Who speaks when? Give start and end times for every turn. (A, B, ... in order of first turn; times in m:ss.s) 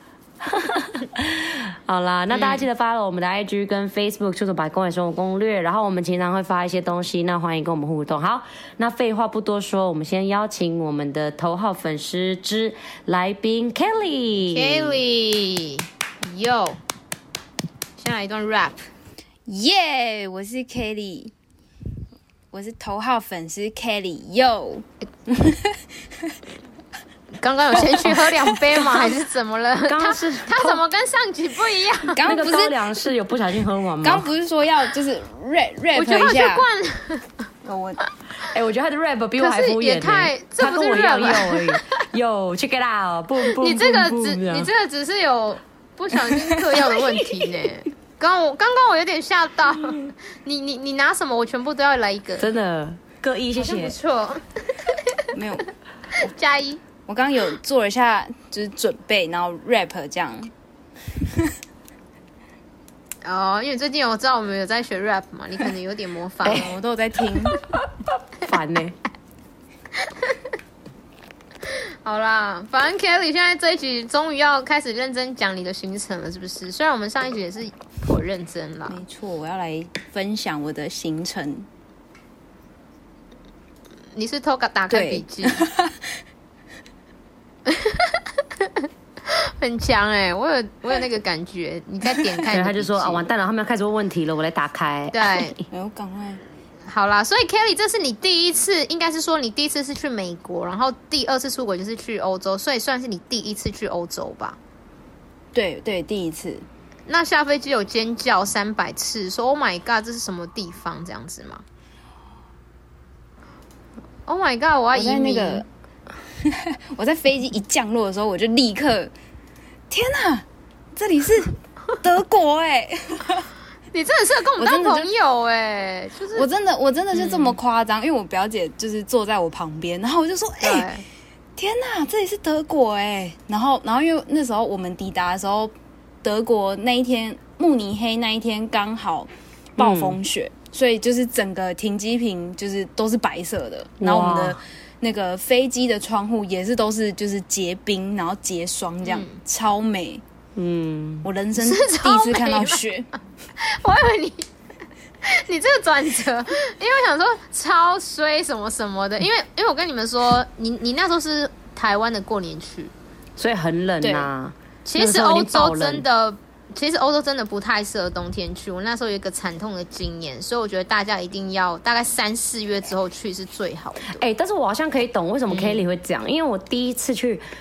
0:00.4-0:15.0 A
0:02.3-0:02.6 B
0:14.5-0:16.8 B
0:18.0-0:18.9 B
0:19.5-0:21.3 C
0:22.5-0:26.3 C
0:27.4-0:32.3 B
0:28.0-0:28.6 C
0:28.7-0:29.1 A
0:29.8-0:30.8 A
0:32.1-0:32.7 C
0:32.3-0:34.3 A
0:34.0-0:36.7 C
0:35.9-0:37.5 B
0:37.6-0:38.0 C
0:38.4-0:44.7 A
0:39.4-0:42.0 B
0:43.4-0:52.5 B
0:46.8-0:47.6 A
0:52.4-0:54.0 A
0:53.6-0:55.4 B
0:55.3-0:56.3 C
0:56.1-0:56.8 B
0:57.1-1:00.5 C
1:03.2-1:06.8 B
1:06.4-1:07.6 C
1:08.4-1:09.0 A
1:10.0-1:10.4 B
1:11.6-1:19.0 B
1:18.9-1:21.7 C
1:24.1-1:25.6 B
1:24.9-1:26.1 C
1:27.6-1:33.2 B
1:32.5-1:35.6 A
1:35.1-1:35.5 B
1:35.7-1:36.4 C
1:36.8-1:44.6 B
1:45.5-1:46.6 C
1:47.1-1:51.6 B
1:54.3-1:55.6 B
1:54.9-1:55.6 C
1:56.4-1:59.1 C
1:59.9-2:03.5 C
2:03.9-2:06.5 B
2:04.6-2:05.1 C
2:06.3-2:10.9 C
2:07.1-2:07.6 B
2:10.6-2:11.0 B
2:11.6-2:15.7 C
2:16.2-2:30.2 C
2:19.8-2:20.2 A
2:24.0-2:24.6 A
2:29.0-2:29.4 B
2:30.6-2:31.3 A
2:31.2-2:33.1 C
2:31.6-2:32.8 B
2:33.6-2:34.5 B
2:35.2-2:42.9 B
2:43.4-2:46.0 A
2:44.0-2:44.3 C
2:44.8-2:54.2 B
2:54.1-2:57.4 A
2:55.5-2:55.8 B